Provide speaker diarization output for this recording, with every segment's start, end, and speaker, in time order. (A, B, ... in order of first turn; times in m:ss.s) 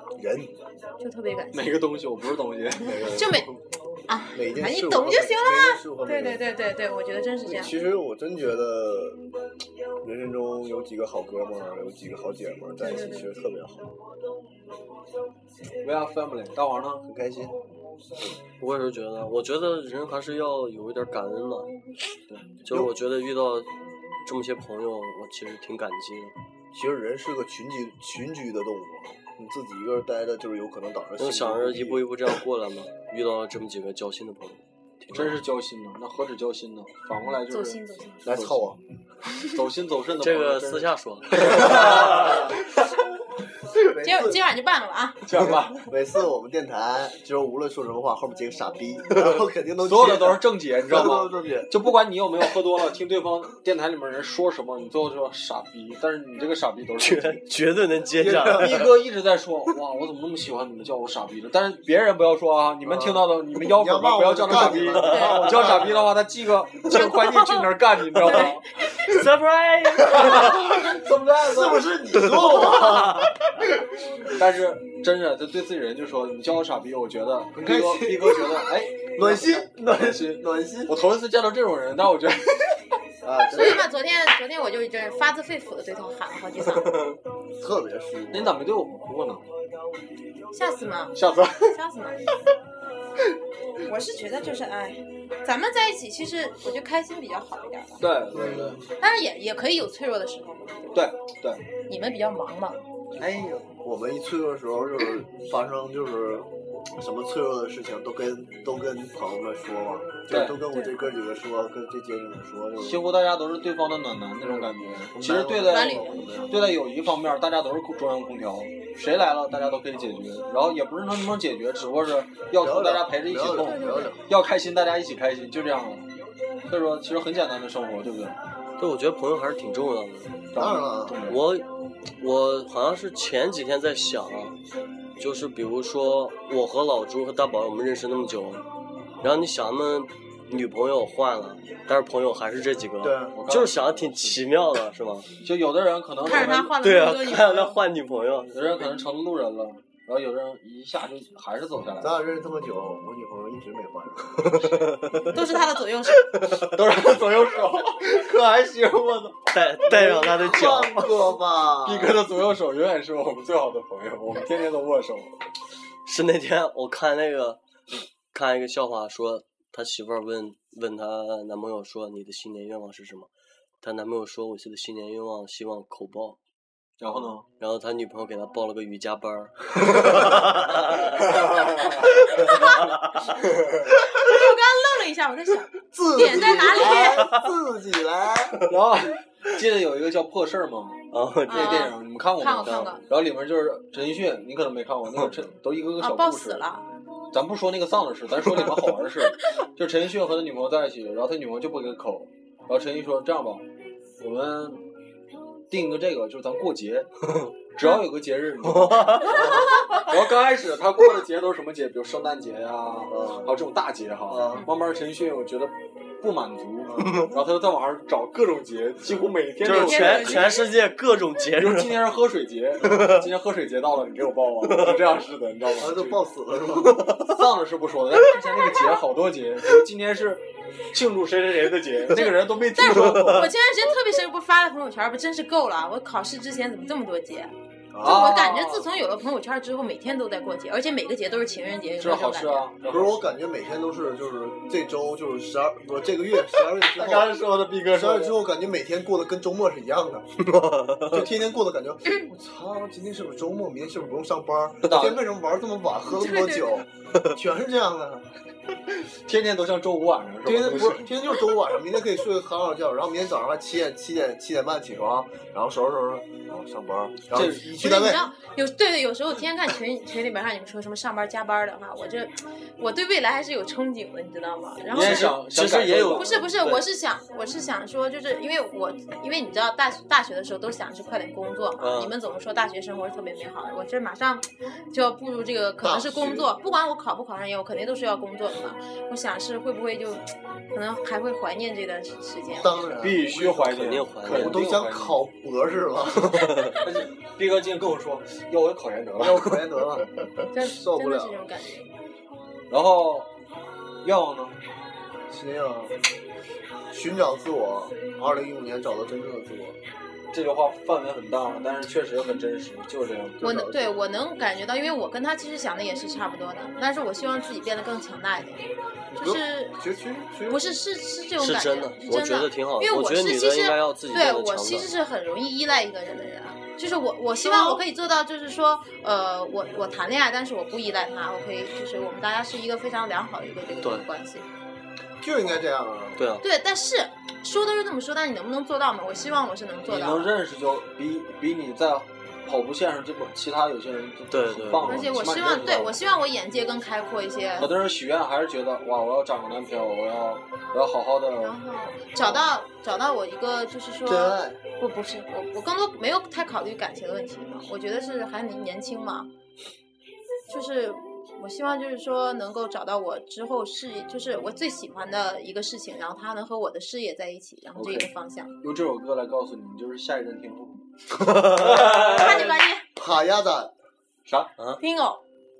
0:00.2-0:00.6 A
0:01.0-0:01.8 B
0:01.5-0:03.4 C
0:02.8-0:03.4 A
0:03.1-0:03.5 B
0:04.1-0:07.7 B
0:04.3-0:06.4 A
0:07.4-0:09.3 A
0:10.0-0:14.0 A
0:12.8-0:13.3 B
0:15.8-0:17.0 C
0:17.0-0:17.6 A
0:18.6-0:21.7 D
0:22.6-0:23.7 D
0:22.7-0:22.9 A
0:24.2-0:26.3 D
0:26.7-0:32.1 A
0:31.2-0:35.4 D
0:35.1-0:38.8 C
0:37.5-0:38.3 B
0:38.2-0:38.8 A
0:39.4-0:42.8 C
0:40.2-0:42.5 D
0:41.4-0:42.7 A
0:43.6-0:44.4 A
0:44.0-0:45.2 B
0:45.2-0:45.8 C
0:45.8-0:51.7 A
0:49.8-0:57.4 C
0:57.0-0:59.0 D
0:58.1-0:58.9 A
0:58.2-1:08.6 C
1:02.8-1:06.1 A
1:04.8-1:05.8 D
1:05.1-1:05.3 B
1:06.9-1:07.6 D
1:08.2-1:10.7 D
1:10.1-1:12.0 C
1:10.1-1:13.3 A
1:12.2-1:13.3 D
1:14.2-1:22.8 C
1:17.5-1:20.9 A
1:23.2-1:23.9 A
1:23.5-1:27.1 B
1:27.6-1:28.7 A
1:28.3-1:29.4 C
1:30.5-1:31.2 B
1:31.1-1:31.8 C
1:31.7-1:32.2 B
1:33.8-1:38.0 B
1:38.0-1:38.8 C
1:38.3-1:38.8 A
1:39.0-1:41.0 B
1:40.9-1:41.6 C
1:41.9-1:42.8 B
1:43.2-1:43.6 C
1:43.8-1:53.0 A
1:50.3-1:50.6 C
1:50.7-1:51.0 B
1:52.8-2:06.1 C
1:54.4-1:56.7 A
1:55.7-1:56.2 B
2:02.6-2:04.2 A
2:03.6-2:04.1 B
2:06.7-2:08.4 C
2:08.8-2:10.4 D
2:10.5-2:11.4 C
2:10.5-2:11.2 A
2:11.3-2:11.7 D
2:12.2-2:14.6 D
2:15.2-2:18.6 D
2:19.2-2:25.3 D
2:23.0-2:23.4 A
2:23.3-2:24.4 C
2:25.4-2:26.7 C
2:26.2-2:27.8 B
2:26.3-2:28.5 D
2:28.5-2:32.2 C
2:32.0-2:35.2 A
2:34.5-2:35.3 D
2:35.3-2:36.2 B
2:36.4-2:36.7 D
2:36.5-2:40.1 C
2:39.5-2:41.1 D
2:39.8-2:42.2 A
2:41.8-2:45.3 C
2:46.0-2:47.6 D
2:48.3-2:53.3 D
2:53.8-2:56.4 D
2:57.0-2:57.4 C
2:57.1-3:03.3 D
3:01.2-3:02.0 C
3:02.4-3:02.8 B
3:04.1-3:07.3 B
3:05.9-3:08.7 A
3:06.5-3:07.5 D
3:08.6-3:16.6 C
3:11.1-3:11.9 D
3:11.5-3:13.0 B
3:12.6-3:12.9 D
3:16.0-3:16.8 B
3:17.3-3:23.6 C
3:24.2-3:24.8 C
3:25.7-3:27.1 C
3:27.7-3:40.6 C
3:28.7-3:29.4 D
3:29.2-3:29.8 A
3:33.1-3:33.5 A
3:34.3-3:34.7 A
3:36.8-3:37.3 A
3:39.6-3:42.1 D
3:39.6-3:40.6 B
3:41.6-3:46.2 C
3:42.8-3:43.3 D
3:44.6-3:45.0 D
3:45.7-3:47.1 A
3:47.2-3:53.5 C
3:52.1-4:02.7 B
3:57.9-3:58.4 A
3:58.0-3:58.9 C
4:02.0-4:03.2 C
4:02.9-4:07.4 A
4:06.8-4:08.4 C
4:07.9-4:10.5 A
4:10.5-4:11.2 D
4:11.0-4:18.3 A
4:14.8-4:15.2 C
4:16.1-4:16.8 B
4:19.0-4:21.1 C
4:20.4-4:28.3 A
4:27.3-4:27.6 C
4:27.6-4:35.5 B
4:34.9-4:36.4 C
4:34.9-4:36.8 D
4:36.0-4:52.8 B
4:41.8-4:42.1 D
4:45.8-4:46.5 A
4:52.5-4:56.7 A
4:53.0-4:55.2 C
4:53.6-4:54.6 D
4:56.4-4:56.8 D
4:56.8-4:59.6 C
4:59.2-5:01.4 A
5:00.5-5:01.9 B
5:02.7-5:03.3 C
5:04.0-5:04.5 C
5:05.3-5:06.0 A
5:06.9-5:09.8 A
5:10.3-5:13.4 C
5:13.4-5:13.9 A
5:13.4-5:19.8 B
5:19.1-5:20.8 A
5:20.5-5:34.4 B
5:21.4-5:24.9 D
5:27.4-5:27.8 A
5:35.2-5:36.2 A
5:36.2-5:36.4 D
5:36.4-5:40.3 B
5:39.9-5:46.0 C
5:44.3-5:45.0 D
5:44.8-5:47.7 B
5:47.6-5:51.6 C
5:51.4-5:59.3 B
5:54.0-5:54.6 A
6:00.5-6:08.5 B
6:07.8-6:08.1 C
6:08.6-6:10.8 C
6:11.1-6:12.3 D
6:11.5-6:12.6 C
6:12.1-6:12.8 B
6:12.9-6:13.7 A
6:14.2-6:14.5 C
6:14.8-6:15.2 B